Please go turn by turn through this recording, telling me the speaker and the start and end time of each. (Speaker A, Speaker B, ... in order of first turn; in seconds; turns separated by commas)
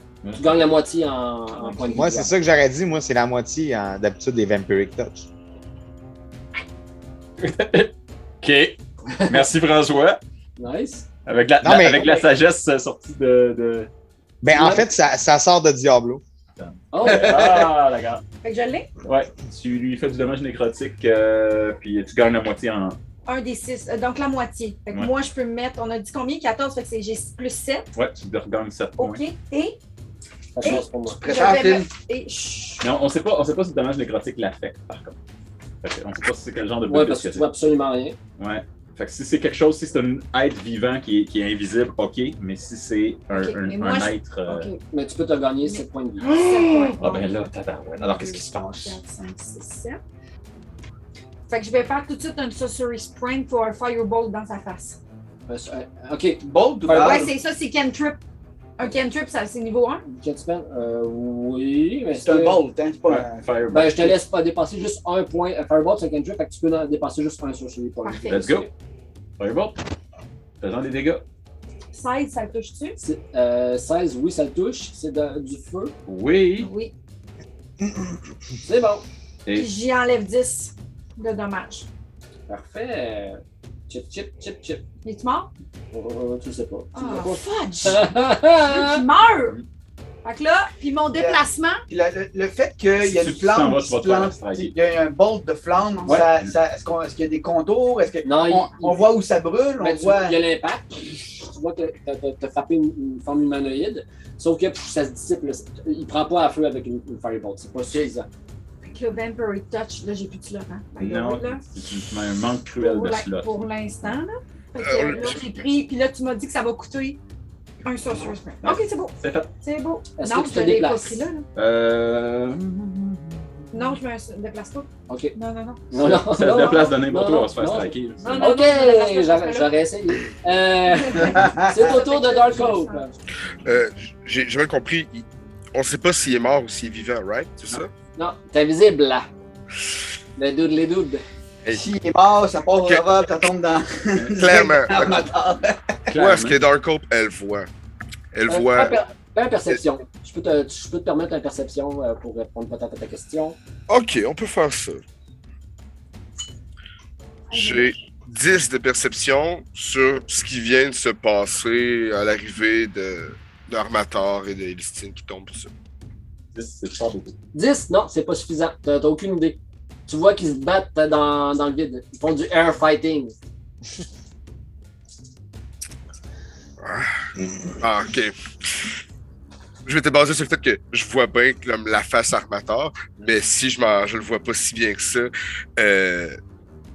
Speaker A: 0.2-0.7, Speaker B: 0.4-2.3, Speaker C: 1.6-2.0, Speaker D: 1.9-5.3, Speaker A: 7.4-10.2, Speaker B: 9.2-9.4, Speaker B: 10.6-11.1, Speaker A: 11.3-13.9, Speaker D: 11.6-12.1, Speaker D: 14.4-16.2, Speaker B: 14.5-14.9, Speaker A: 16.6-18.2, Speaker B: 16.9-17.4, Speaker E: 17.0-17.7, Speaker C: 18.4-18.9, Speaker A: 19.0-23.0, Speaker C: 23.3-27.9, Speaker A: 27.9-29.2, Speaker C: 29.0-29.8, Speaker B: 30.6-31.2, Speaker C: 30.6-32.9, Speaker E: 30.7-31.9, Speaker A: 32.8-35.2, Speaker A: 35.8-37.5, Speaker B: 36.9-38.2, Speaker A: 38.4-44.7, Speaker C: 43.3-44.8, Speaker B: 44.9-46.3, Speaker C: 45.6-47.4, Speaker A: 46.2-49.0, Speaker C: 48.0-50.0, Speaker C: 51.5-55.0, Speaker B: 55.5-57.3, Speaker E: 56.4-57.3, Speaker C: 56.9-58.2, Speaker C: 58.8-60.0, Speaker B: 60.1-62.6, Speaker E: 62.1-63.4, Speaker A: 63.1-64.2, Speaker B: 63.7-68.7, Speaker C: 68.0-68.6, Speaker A: 68.3-68.7, Speaker A: 69.4-69.8, Speaker A: 70.6-71.2, Speaker C: 71.9-73.0, Speaker B: 73.0-76.0, Speaker A: 76.1-76.7, Speaker C: 76.6-76.9, Speaker B: 78.6-79.0, Speaker C: 79.5-81.9, Speaker B: 82.5-84.8, Speaker C: 85.0-85.5, Speaker B: 85.9-89.0, Speaker C: 86.9-88.0, Speaker C: 88.6-89.6, Speaker C: 90.2-91.8, Speaker E: 91.2-100.4, Speaker A: 93.0-94.8, Speaker A: 96.1-96.5, Speaker B: 98.2-99.0, Speaker B: 99.8-108.3, Speaker C: 108.8-111.6, Speaker A: 111.0-113.5, Speaker C: 112.8-117.2, Speaker F: 114.8-115.4, Speaker C: 117.8-121.5, Speaker A: 118.6-119.5, Speaker B: 120.2-121.3, Speaker A: 121.6-124.0, Speaker C: 123.7-125.8, Speaker B: 125.1-125.3, Speaker B: 125.9-133.1, Speaker A: 126.0-128.3, Speaker C: 126.5-126.9, Speaker C: 128.2-129.7, Speaker C: 130.9-133.2, Speaker E: 131.2-131.7, Speaker F: 133.7-137.9, Speaker B: 138.2-139.3, Speaker B: 140.4-141.2, Speaker E: 141.7-146.0, Speaker F: 144.3-145.3, Speaker A: 146.1-146.6, Speaker F: 146.2-147.7, Speaker F: 148.3-149.0, Speaker B: 148.5-153.6, Speaker F: 153.9-155.0, Speaker C: 157.5-157.9, Speaker F: 157.5-165.7, Speaker A: 166.6-167.4, Speaker B: 167.5-173.3, Speaker F: 176.8-177.2, Speaker F: 177.8-178.9, Speaker F: 179.8-186.4